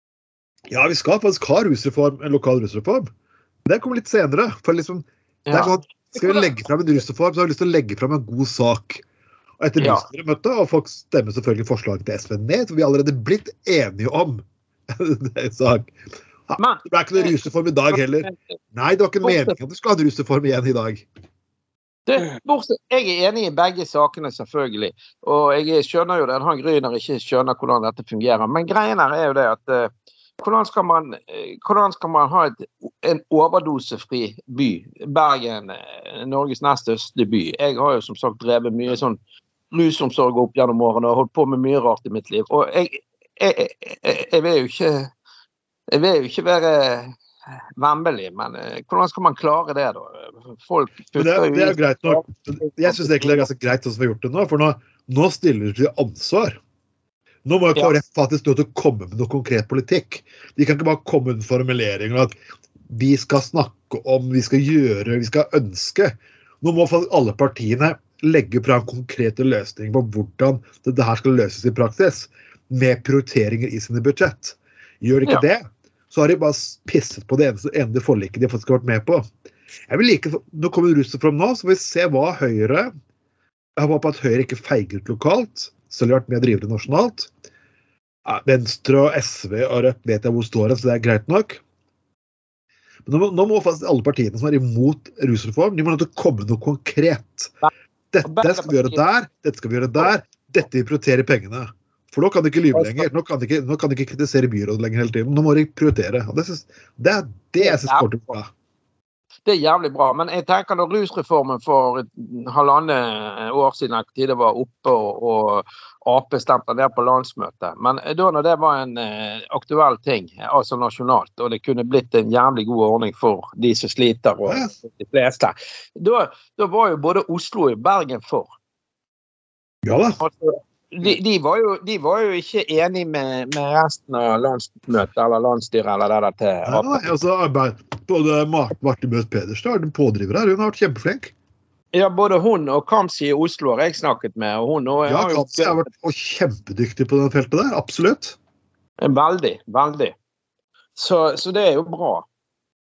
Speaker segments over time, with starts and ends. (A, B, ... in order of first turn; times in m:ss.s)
0:00.7-0:03.1 A
0:03.6-0:09.0 A
0:05.4-0:06.5 B
0:09.6-0:15.9 A
0:09.8-0:10.0 B
0:16.5-0:21.0 A
0:16.6-0:17.3 B
0:19.2-0:19.5 B
0:22.1-0:39.2 B
0:39.7-0:45.1 B
0:45.9-0:47.2 B
0:47.8-0:53.4 B
0:51.1-0:56.6 A
0:57.4-1:02.3 A
1:02.9-1:19.3 A
1:19.9-1:22.9 A
1:23.8-1:27.3 A
1:28.2-1:31.6 A
1:33.0-1:37.5 A
1:38.1-1:48.5 A
1:38.2-1:39.0 B
1:42.7-1:43.0 B
1:47.6-1:48.1 B
1:49.4-2:08.5 B
2:09.8-2:10.2 A
2:10.2-2:17.0 B
2:16.7-2:21.3 A
2:21.9-2:25.8 B
2:25.1-2:28.4 A
2:29.0-2:30.1 B
2:31.0-2:32.3 B